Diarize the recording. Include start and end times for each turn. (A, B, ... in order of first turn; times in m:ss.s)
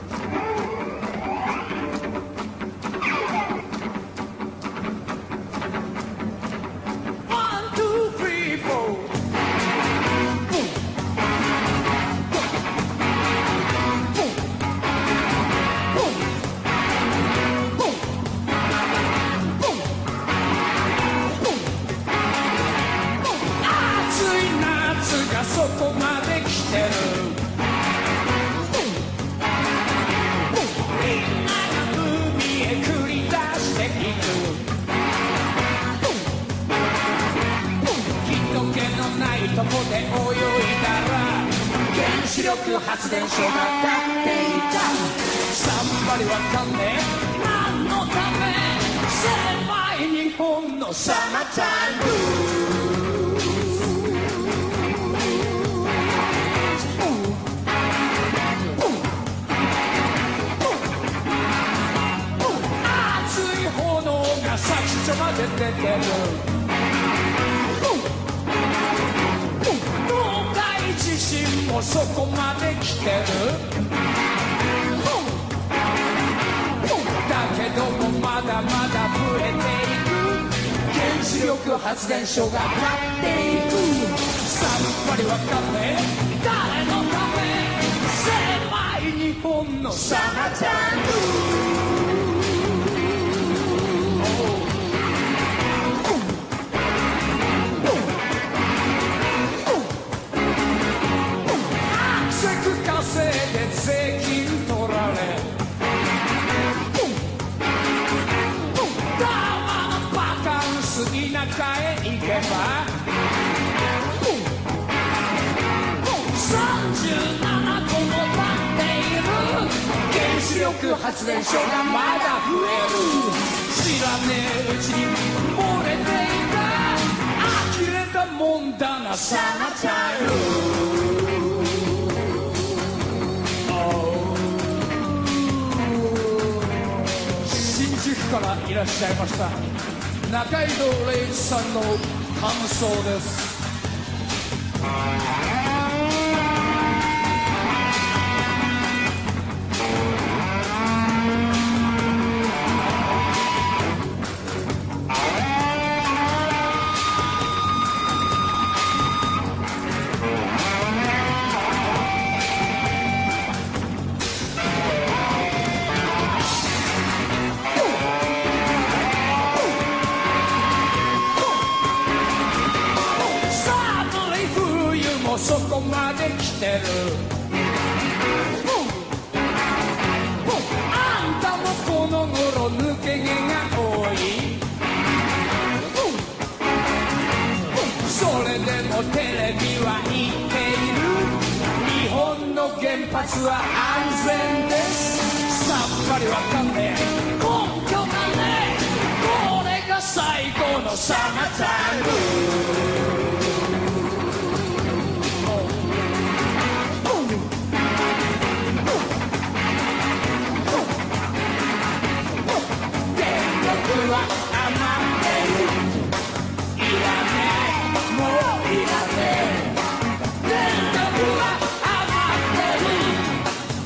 0:07.3-0:09.2 A
0:23.6-0:27.4 A
0:30.7-0:34.6 A
0:38.1-0:56.0 A
0:56.8-0:57.4 A
1:02.5-1:06.5 A
1:10.0-1:13.7 A
1:17.1-1:31.8 A
1:34.0-1:34.8 A
1:41.8-1:45.6 A
1:49.0-1:53.0 A
1:56.1-2:11.8 A
2:13.6-2:23.6 A
2:53.2-2:57.3 A
3:00.9-3:04.6 A
3:07.9-3:23.0 A
3:25.3-3:26.1 A
3:33.1-3:36.0 A
3:36.7-3:39.8 A
3:40.4-3:43.5 A